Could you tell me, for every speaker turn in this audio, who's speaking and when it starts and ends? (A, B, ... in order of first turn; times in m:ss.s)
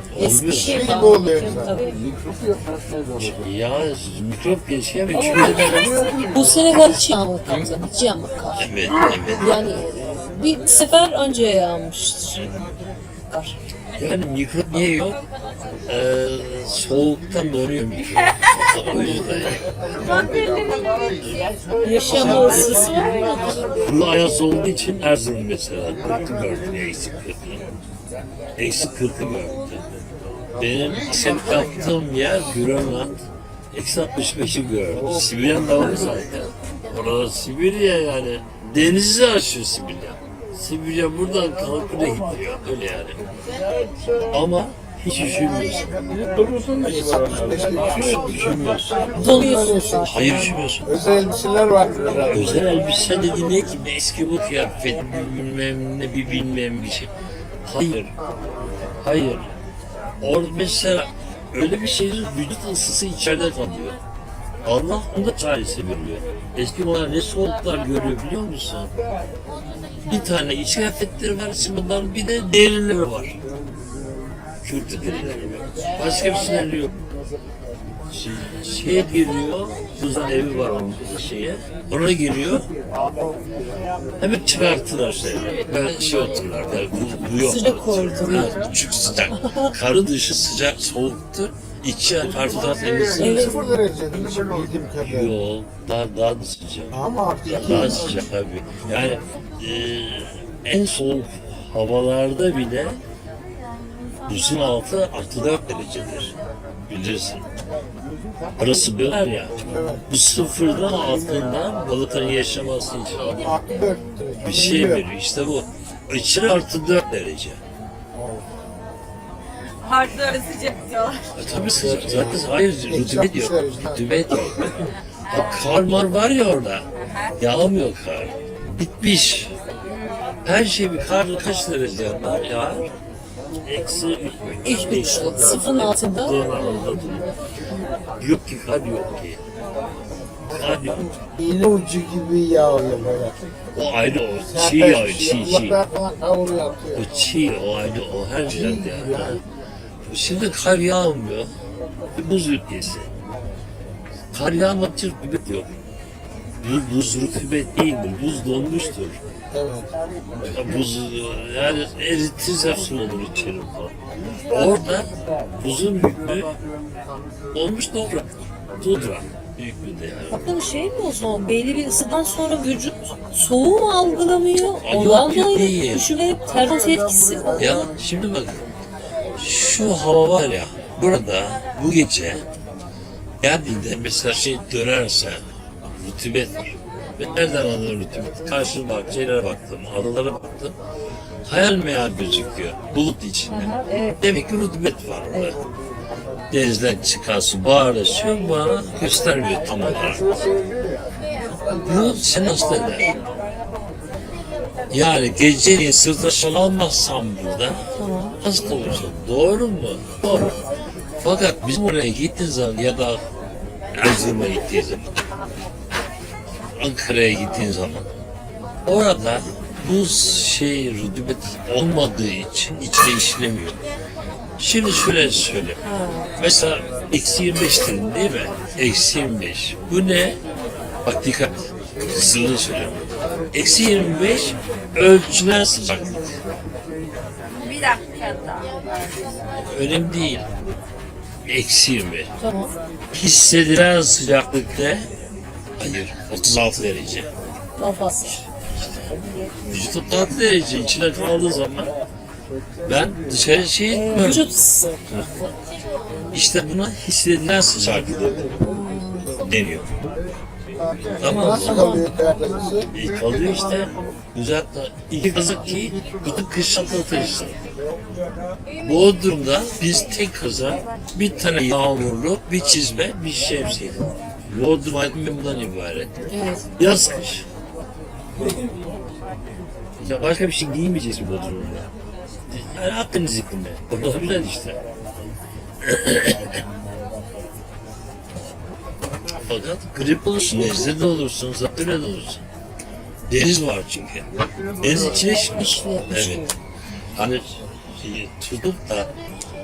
0:00.1-0:00.9 A
0:00.2-0:02.0 B
0:00.6-0:01.7 C
0:01.8-0:03.4 D
0:03.2-0:06.8 A
0:05.1-0:12.4 B
0:08.6-0:09.7 A
0:13.3-0:13.6 B
0:14.0-0:15.2 A
0:15.9-0:19.6 A
0:20.0-0:21.5 E
0:21.8-0:23.6 B
0:22.1-0:22.8 A
0:23.7-0:27.6 A
0:28.6-0:29.8 A
0:30.6-0:33.2 A
0:33.7-0:43.2 A
0:43.6-0:44.4 D
0:44.3-0:45.9 A
0:46.1-0:49.1 D
0:46.8-0:48.4 C
0:47.9-0:50.8 A
0:49.2-0:52.7 C
0:49.2-0:50.0 B
0:52.1-0:57.1 A
0:57.7-0:58.1 A
0:59.0-0:59.5 A
1:00.2-1:04.0 A
1:04.6-1:08.9 A
1:10.0-1:13.4 A
1:14.6-1:16.9 A
1:18.1-1:22.7 A
1:24.2-1:33.5 A
1:27.4-1:28.7 B
1:29.3-1:29.7 B
1:33.2-1:33.7 B
1:33.2-1:35.3 C
1:35.0-1:36.9 A
1:36.9-1:38.1 C
1:37.4-1:43.0 A
1:44.3-1:46.3 A
1:46.9-1:47.4 A
1:48.6-1:53.4 A
1:49.6-1:50.0 C
1:53.2-1:55.0 C
1:54.4-1:57.6 A
1:59.8-2:01.2 E
2:01.3-2:04.7 A
2:01.5-2:04.0 C
2:05.3-2:06.8 A
2:07.4-2:09.5 A
2:10.4-2:12.9 A
2:13.6-2:17.2 A
2:14.6-2:16.4 B
2:18.2-2:19.4 A
2:20.5-2:21.0 A
2:20.8-2:23.4 C
2:23.7-2:25.8 A
2:24.5-2:27.0 C
2:27.0-2:29.4 A
2:28.5-2:29.4 C
2:30.0-2:31.5 A
2:32.2-2:33.1 A
2:34.3-2:35.7 A
2:36.6-2:39.2 A
2:39.5-2:39.9 C
2:40.4-2:43.9 A
2:44.4-2:46.5 A
2:47.5-2:48.3 A
2:48.8-2:50.5 A
2:50.3-2:57.8 B
2:54.8-2:56.0 A
2:57.5-2:58.6 A
2:59.4-3:02.4 A
3:03.4-3:05.4 A
3:06.0-3:10.7 A
3:11.5-3:15.6 A
3:13.5-3:14.3 B
3:16.5-3:20.3 A
3:21.8-3:23.1 A
3:24.9-3:27.8 A
3:28.0-3:28.4 B
3:28.4-3:30.5 A
3:31.2-3:33.2 A
3:33.9-3:35.0 A
3:36.8-3:38.0 A
3:38.8-3:43.8 A
3:44.6-3:45.8 A
3:45.8-3:46.3 B
3:46.4-3:50.4 A
3:51.0-3:56.3 A
3:57.6-3:58.8 E
3:59.6-4:00.4 A
4:01.4-4:02.3 A
4:02.4-4:02.7 B
4:03.1-4:05.1 A
4:05.8-4:07.3 A
4:07.8-4:08.4 B
4:08.8-4:09.1 A
4:09.7-4:11.9 A
4:12.8-4:14.4 A
4:13.9-4:15.0 B
4:16.3-4:18.5 A
4:18.6-4:19.4 B
4:19.4-4:19.9 A
4:21.2-4:22.0 A
4:21.3-4:22.0 B
4:21.3-4:22.9 C
4:22.9-4:27.6 A
4:28.8-4:36.1 A
4:36.3-4:36.6 B
4:36.8-4:37.4 A
4:40.0-4:41.9 A
4:42.5-4:44.8 A
4:45.8-4:46.6 A
4:49.4-4:52.4 A
4:53.3-4:54.2 A
4:54.8-4:56.5 A
4:54.9-4:56.5 B
4:57.2-4:57.4 A
4:58.0-4:59.1 A